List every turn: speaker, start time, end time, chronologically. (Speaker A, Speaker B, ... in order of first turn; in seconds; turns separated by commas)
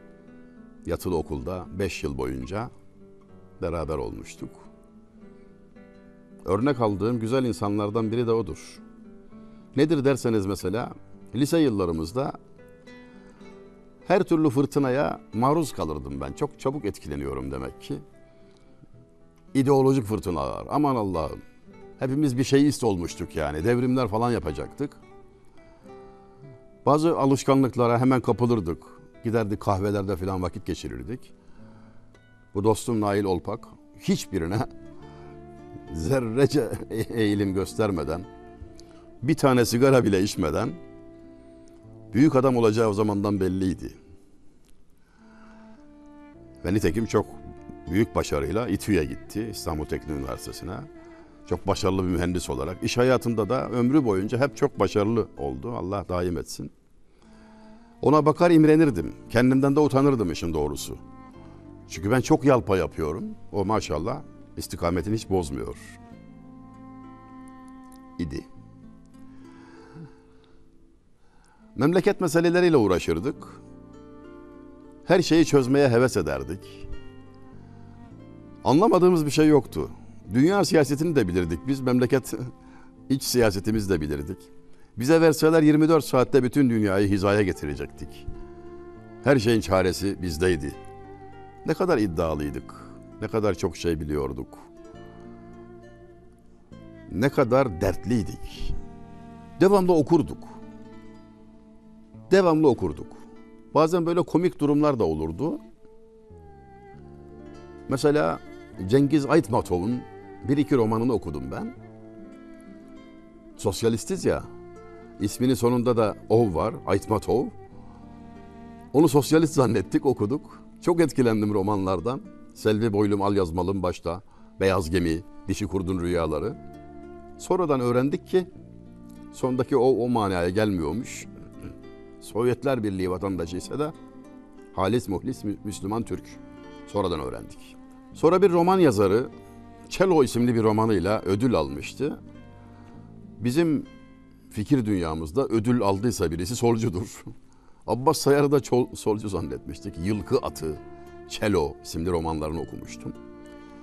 Speaker A: 0.8-2.7, Speaker A: 3.6-4.7, Speaker A: 6.4-8.8, Speaker A: 9.7-12.3, Speaker A: 14.1-18.0, Speaker A: 19.5-21.4, Speaker A: 22.0-25.0, Speaker A: 26.8-31.3, Speaker A: 32.5-34.7, Speaker A: 35.9-38.3, Speaker A: 39.2-40.8, Speaker A: 42.1-44.0, Speaker A: 46.6-50.9, Speaker A: 51.5-56.7, Speaker A: 58.0-61.0, Speaker A: 61.9-66.0, Speaker A: 68.2-68.5, Speaker A: 71.7-73.6, Speaker A: 75.0-76.9, Speaker A: 78.6-82.5, Speaker A: 83.1-88.3, Speaker A: 89.2-90.8, Speaker A: 91.6-94.7, Speaker A: 97.1-98.8, Speaker A: 99.6-100.6, Speaker A: 102.3-105.6, Speaker A: 107.9-111.7, Speaker A: 113.6-114.5, Speaker A: 115.2-117.5, Speaker A: 118.9-126.6, Speaker A: 127.4-128.5, Speaker A: 129.3-131.3, Speaker A: 132.2-133.9, Speaker A: 134.7-139.3, Speaker A: 139.9-142.2, Speaker A: 143.4-143.9, Speaker A: 144.5-147.3, Speaker A: 147.8-153.1